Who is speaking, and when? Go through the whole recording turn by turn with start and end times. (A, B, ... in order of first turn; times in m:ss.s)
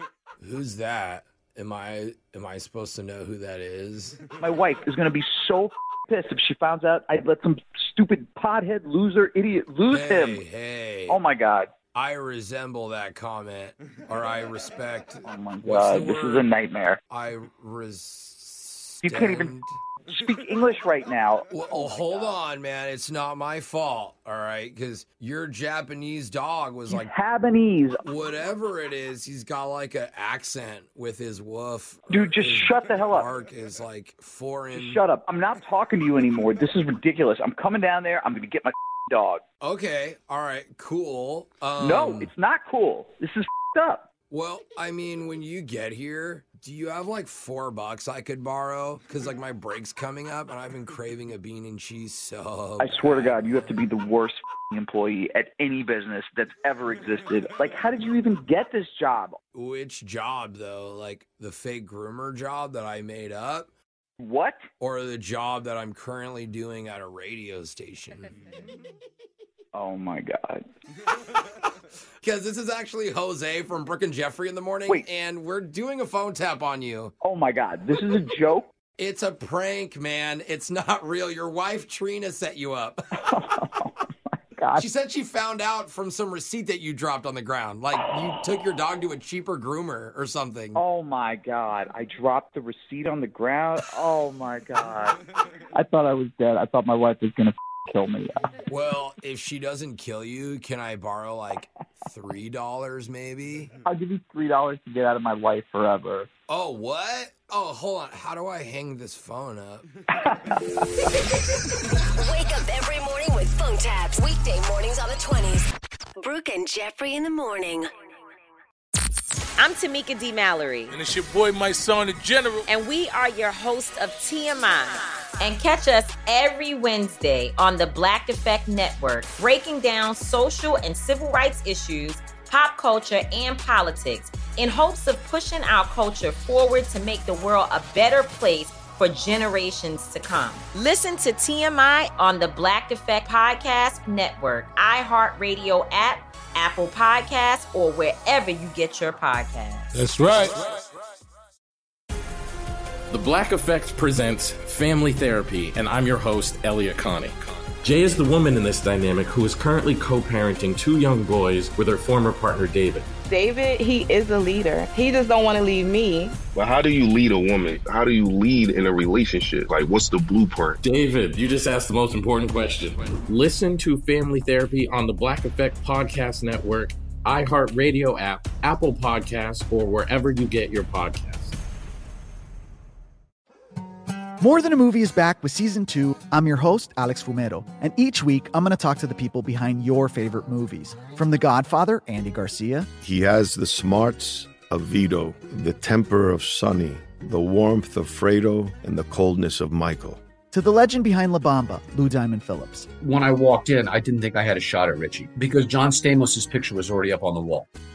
0:00.4-0:04.2 A
0:04.4-0:10.4 B
0:09.9-0:11.2 A
0:11.1-0:11.7 B
0:11.9-0:16.5 A
0:15.2-0:17.0 B
0:17.1-0:19.8 A
0:19.0-0:19.5 B
0:20.1-0:22.4 B
0:21.5-0:27.1 A
0:26.9-0:28.0 B
0:28.0-0:35.0 A
0:32.1-0:33.3 B
0:34.7-0:39.4 B
0:39.6-0:42.3 A
0:41.8-0:44.1 B
0:44.3-0:53.6 A
0:52.8-0:59.4 B
0:59.5-1:03.7 A
1:04.2-1:04.6 B
1:04.8-1:08.3 A
1:09.7-1:10.6 B
1:12.2-1:17.1 A
1:17.2-1:18.7 B
1:19.0-1:23.0 A
1:23.2-1:24.8 B
1:24.8-1:30.8 A
1:30.7-1:35.2 B
1:35.7-1:38.4 B
1:38.7-1:43.7 A
1:43.8-1:46.3 B
1:46.5-1:49.9 A
1:50.2-1:50.6 B
1:52.1-1:55.7 C
1:56.2-1:57.9 C
1:59.6-2:00.9 D
2:00.9-2:02.6 E
2:02.7-2:29.8 D
2:29.9-2:30.6 E
2:33.1-2:43.1 F
2:43.2-2:46.4 G
2:46.5-2:50.8 H
2:50.8-3:01.6 F
3:04.4-3:12.9 I
3:13.0-3:20.2 J
3:20.5-3:22.9 I
3:23.0-3:27.7 K